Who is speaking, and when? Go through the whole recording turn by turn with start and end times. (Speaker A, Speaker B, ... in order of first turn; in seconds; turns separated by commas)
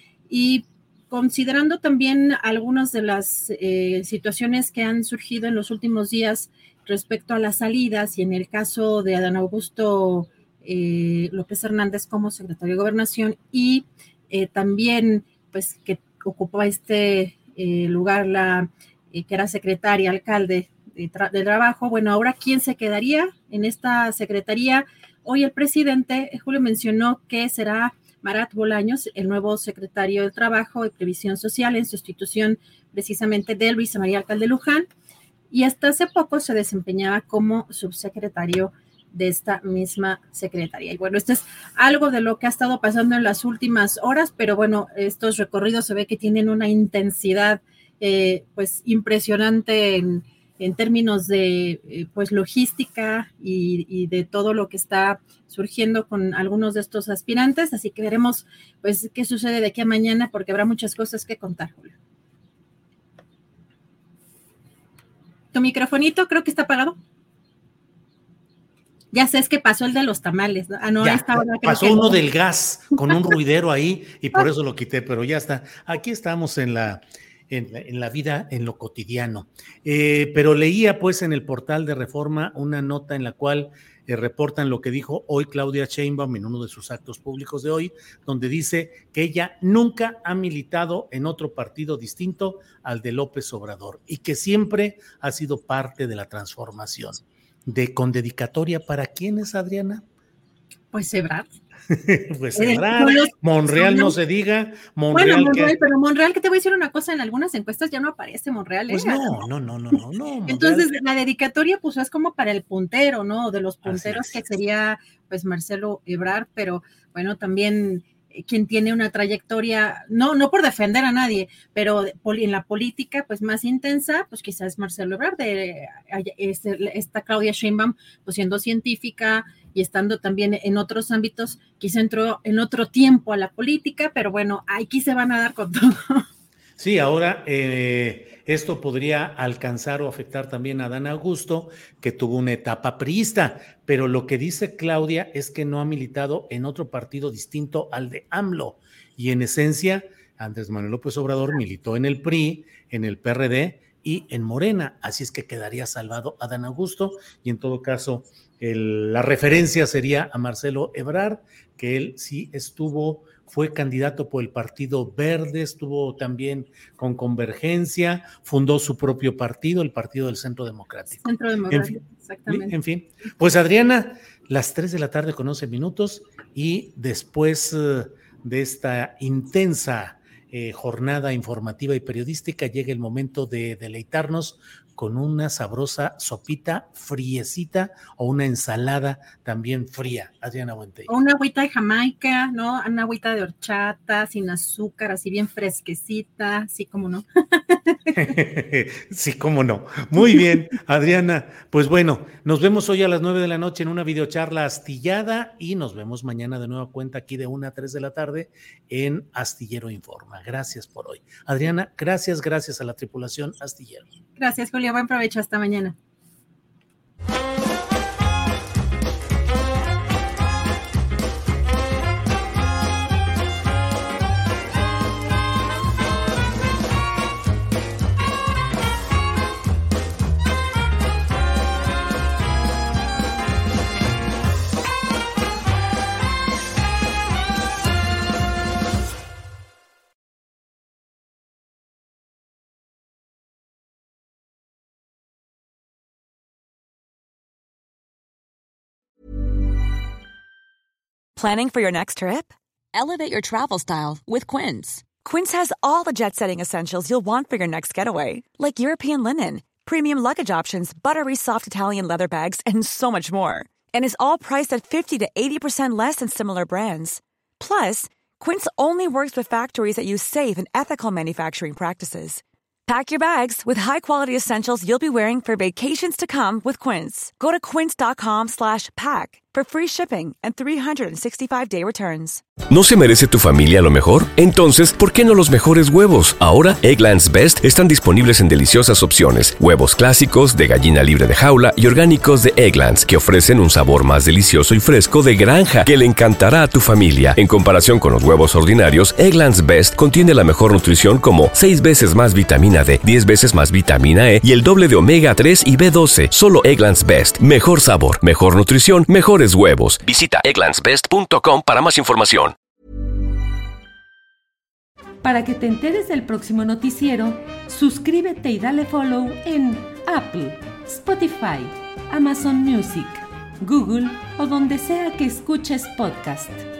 Speaker A: 0.3-34.9, Speaker A: 35.5-62.0, Speaker A: 65.5-67.0, Speaker A: 69.1-72.2, Speaker B: 71.0-100.0, Speaker A: 100.9-101.5, Speaker B: 101.9-105.8, Speaker A: 102.5-104.2, Speaker A: 105.1-109.4, Speaker B: 108.9-110.9, Speaker A: 110.5-136.2, Speaker B: 113.8-114.4, Speaker B: 136.8-171.9, Speaker A: 171.2-172.8, Speaker B: 172.5-191.1, Speaker A: 191.1-198.3, Speaker B: 198.2-214.1, Speaker A: 214.4-216.0, Speaker C: 251.4-282.4, Speaker D: 282.7-312.6, Speaker E: 315.2-326.7